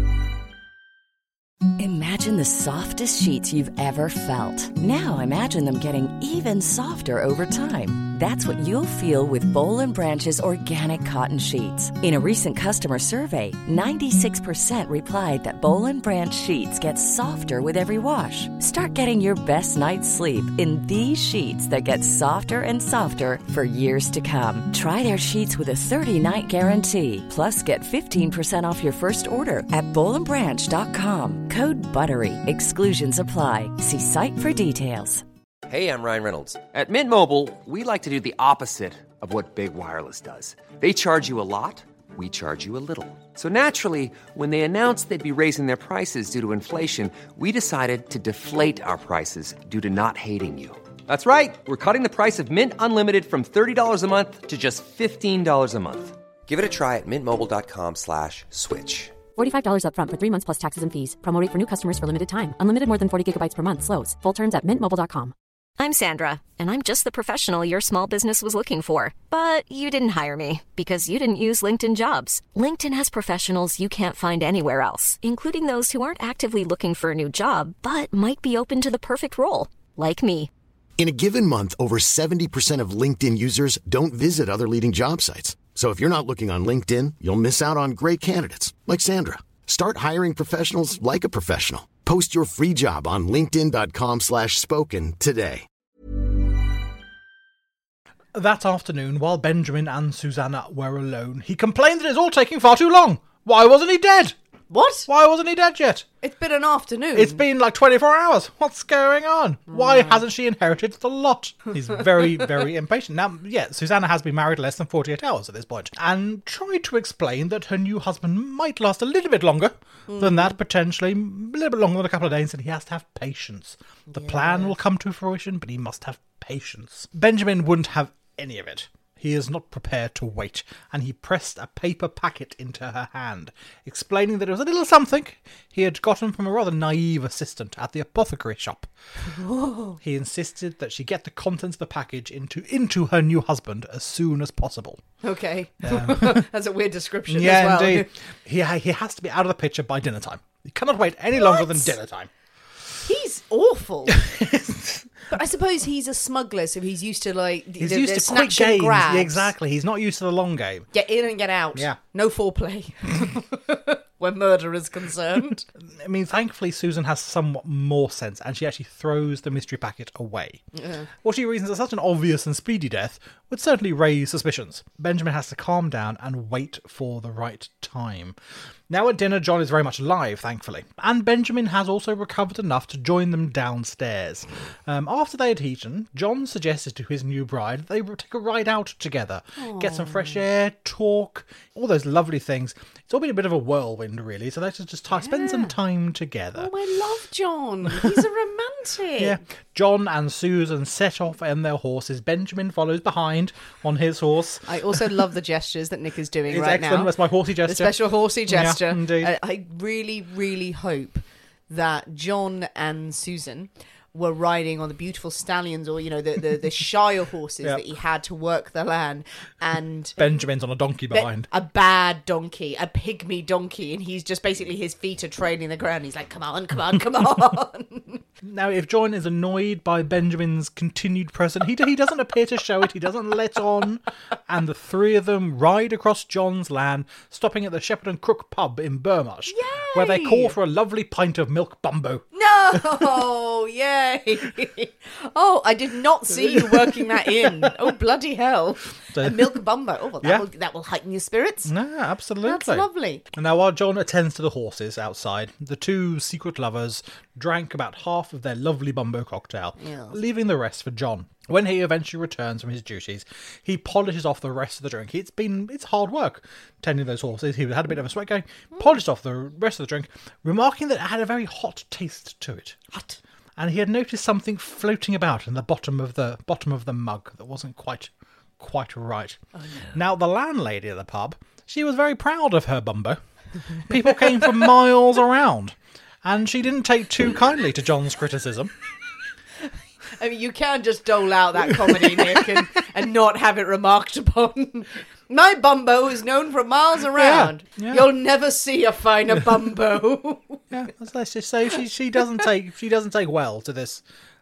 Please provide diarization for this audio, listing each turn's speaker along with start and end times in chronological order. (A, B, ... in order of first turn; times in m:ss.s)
0:01.8-0:35.2 A
0:35.7-0:59.2 B
0:59.4-1:05.3 C
1:05.8-1:20.5 D
1:21.0-1:35.6 E
1:38.3-1:44.3 F
1:44.7-1:45.1 G
1:45.1-1:46.0 F
1:46.2-1:47.4 G
1:47.1-2:18.9 F
1:49.7-1:50.2 G
2:00.1-2:00.5 G
2:04.1-2:04.7 G
2:19.3-2:20.0 G
2:20.0-2:25.0 F
2:25.2-2:28.1 G
2:25.8-2:26.4 F
2:27.3-2:32.3 F
2:31.4-2:31.9 G
2:33.0-2:34.2 G
2:34.1-2:35.1 F
2:35.3-2:39.5 G
2:37.8-2:40.9 F
2:40.9-2:45.6 G
2:45.8-2:50.6 F
2:50.7-2:51.1 G
2:51.2-2:58.4 F
2:58.9-3:16.7 F
3:09.6-3:10.4 G
3:15.1-3:15.7 G
3:16.6-3:19.4 G
3:19.2-3:25.1 F
3:24.6-3:40.2 G
3:26.5-3:29.3 F
3:40.2-3:41.5 F
3:41.1-3:48.2 G
3:48.4-4:03.0 F
3:59.5-4:00.5 G
4:02.3-4:11.7 G
4:06.3-4:07.8 F
4:09.1-4:09.6 F
4:11.6-4:32.8 F
4:12.4-4:13.2 G
4:19.8-4:20.2 G
4:33.6-4:39.4 F
4:39.9-4:43.2 F
4:43.8-4:48.7 F
4:50.2-5:00.6 G
4:52.1-4:52.4 F
4:57.1-4:58.1 F
5:00.7-5:04.0 F